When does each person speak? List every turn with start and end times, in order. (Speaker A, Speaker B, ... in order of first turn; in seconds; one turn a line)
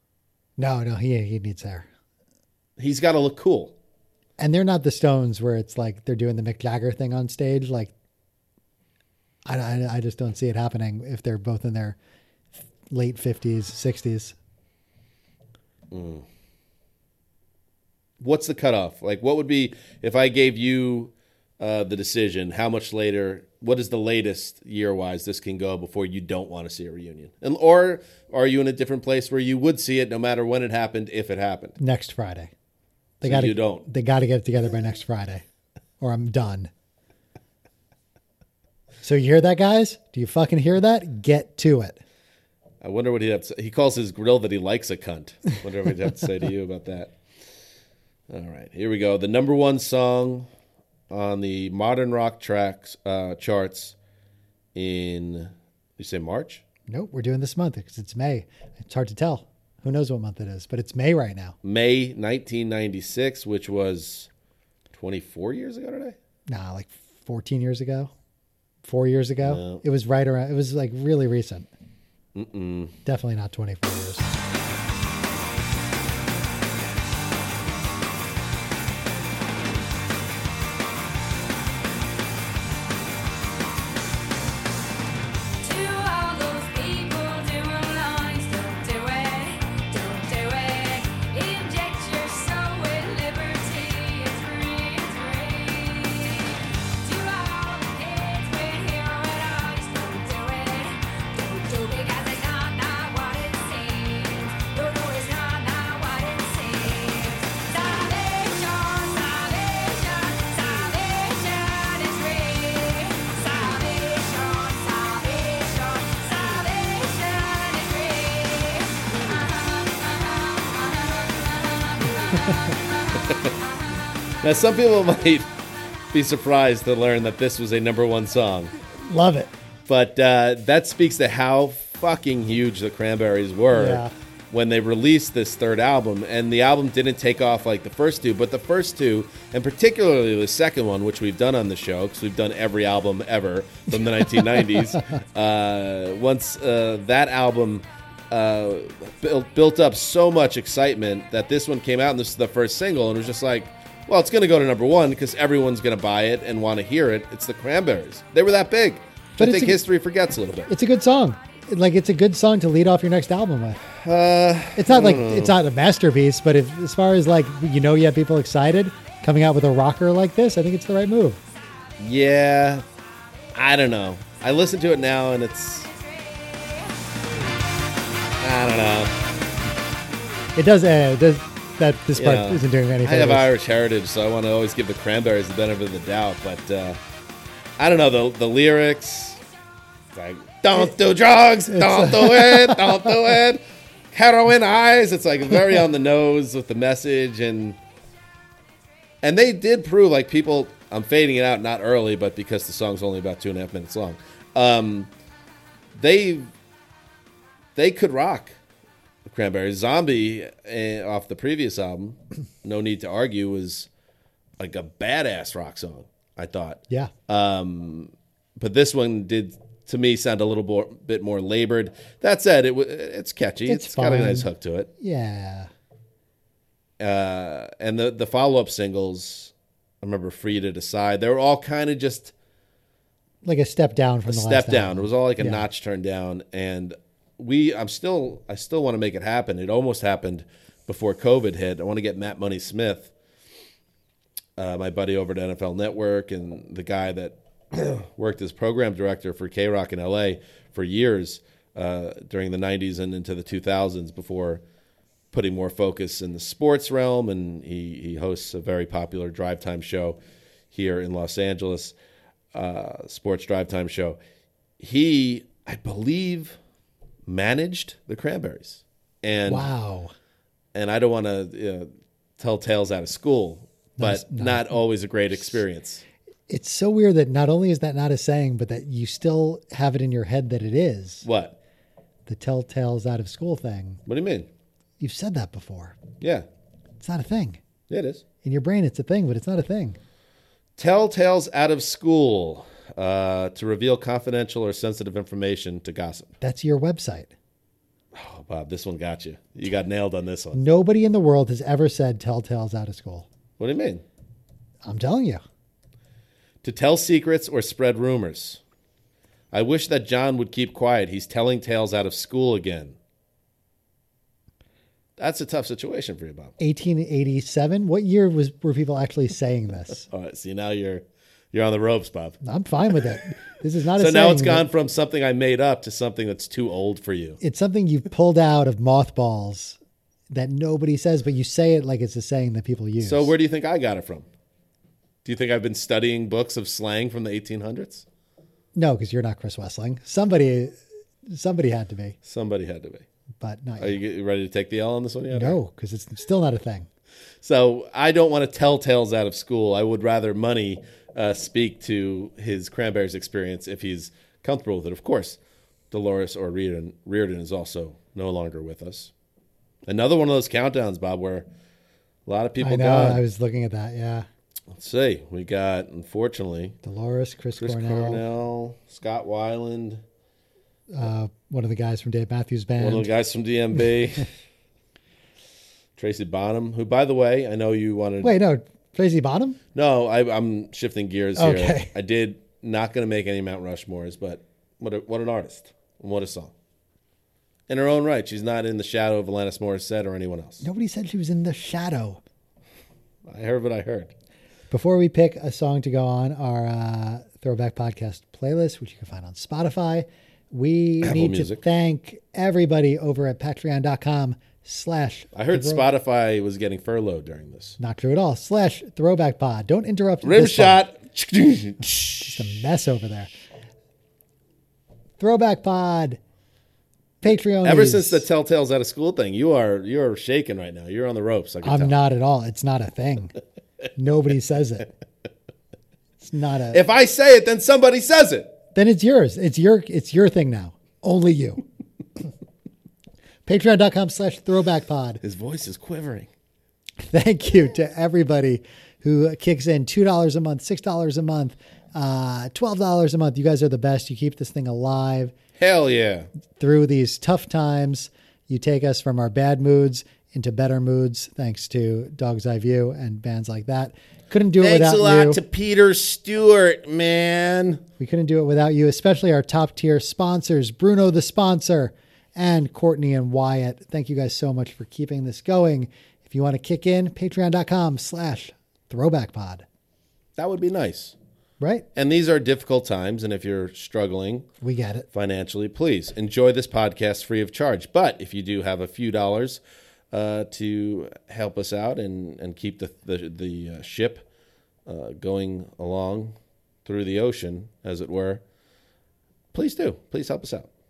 Speaker A: 0.6-1.9
Speaker B: 2.8-3.7
Speaker A: 4.4-7.9
Speaker A: 9.4-11.9
Speaker A: 12.9-14.3
Speaker B: 15.9-16.3
Speaker B: 18.2-31.8
Speaker A: 31.8-32.5
Speaker A: 33.2-35.4
Speaker B: 33.2-33.9
Speaker A: 36.0-36.7
Speaker A: 39.0-42.0
Speaker B: 42.8-47.1
Speaker B: 48.3-50.5
Speaker B: 51.1-54.0
Speaker B: 54.7-56.6
Speaker A: 56.9-61.5
Speaker B: 61.6-64.3
Speaker B: 64.9-66.2
Speaker A: 66.5-68.1
Speaker A: 68.8-71.7
Speaker B: 69.4-69.8
Speaker B: 72.3-73.0
Speaker A: 73.0-74.3
Speaker C: 85.6-122.8
Speaker B: 123.1-123.5
Speaker B: 124.4-125.5
Speaker B: 126.1-128.7
Speaker A: 129.0-129.5
Speaker B: 129.9-160.7
Speaker A: 133.7-134.1
Speaker A: 159.4-159.8
Speaker A: 160.7-163.8
Speaker B: 163.9-165.6
Speaker A: 164.8-171.4
Speaker B: 172.0-172.8
Speaker B: 173.5-175.9
Speaker B: 178.4-179.1
Speaker A: 180.6-183.5
Speaker B: 182.1-187.0
Speaker B: 187.8-189.4
Speaker B: 190.1-197.8
Speaker A: 191.7-193.1
Speaker B: 199.2-205.1
Speaker B: 205.9-206.5
Speaker B: 207.8-208.6
Speaker B: 209.2-213.9
Speaker B: 214.6-224.9
Speaker A: 223.7-225.7
Speaker B: 227.0-232.3
Speaker A: 233.4-235.7
Speaker B: 234.3-243.1
Speaker B: 244.6-254.6
Speaker B: 255.3-260.2
Speaker B: 260.7-261.9
Speaker B: 262.5-264.2
Speaker B: 264.8-266.6
Speaker B: 267.3-269.7
Speaker A: 269.5-270.1
Speaker B: 270.7-276.0
Speaker A: 274.0-274.8
Speaker A: 276.5-281.3
Speaker B: 281.2-281.6
Speaker A: 282.3-284.0
Speaker B: 284.1-284.5
Speaker A: 285.0-285.9
Speaker B: 286.2-286.5
Speaker A: 287.0-287.6
Speaker B: 287.9-288.2
Speaker A: 288.4-290.0
Speaker B: 290.8-296.3
Speaker A: 296.4-297.3
Speaker B: 298.1-300.6
Speaker A: 300.5-303.3
Speaker B: 303.6-304.1
Speaker A: 304.8-305.4
Speaker B: 306.6-308.6
Speaker B: 309.5-312.9
Speaker B: 315.2-316.5
Speaker A: 316.6-320.1
Speaker B: 320.1-322.4
Speaker A: 322.4-324.7
Speaker B: 323.9-327.4
Speaker A: 327.4-329.8
Speaker A: 330.3-333.3
Speaker B: 333.0-334.3
Speaker B: 335.2-338.1
Speaker A: 338.8-340.8
Speaker A: 341.3-342.2
Speaker B: 342.2-343.1
Speaker A: 343.4-344.0
Speaker B: 343.8-345.6
Speaker A: 345.3-346.9
Speaker B: 347.4-355.4
Speaker B: 355.9-359.1
Speaker B: 359.9-361.5
Speaker B: 362.3-363.2
Speaker A: 362.6-364.3
Speaker B: 364.7-366.8
Speaker A: 366.8-368.2
Speaker B: 367.6-370.0
Speaker A: 370.9-373.1
Speaker B: 372.8-374.3
Speaker B: 376.0-378.3
Speaker A: 378.2-379.6
Speaker B: 379.7-386.5
Speaker A: 381.4-381.9
Speaker B: 387.7-390.6
Speaker A: 390.6-392.2
Speaker B: 393.3-394.1
Speaker A: 394.7-405.9
Speaker B: 401.0-401.6
Speaker B: 405.3-407.8
Speaker A: 407.8-410.8
Speaker B: 410.2-412.5
Speaker A: 412.2-413.3
Speaker A: 415.2-416.2
Speaker A: 417.2-418.2
Speaker B: 417.6-422.0
Speaker A: 421.6-423.3
Speaker A: 424.0-424.9
Speaker A: 426.2-426.8
Speaker B: 426.7-428.5
Speaker A: 428.7-431.6
Speaker A: 433.5-435.2
Speaker B: 435.2-436.3
Speaker A: 437.0-445.3
Speaker B: 445.6-446.3
Speaker A: 446.6-455.4
Speaker B: 454.6-457.8
Speaker A: 458.0-469.6
Speaker B: 470.4-471.1
Speaker B: 471.9-474.5
Speaker A: 474.6-475.1
Speaker B: 475.1-484.2
Speaker B: 484.9-488.4
Speaker B: 489.5-490.7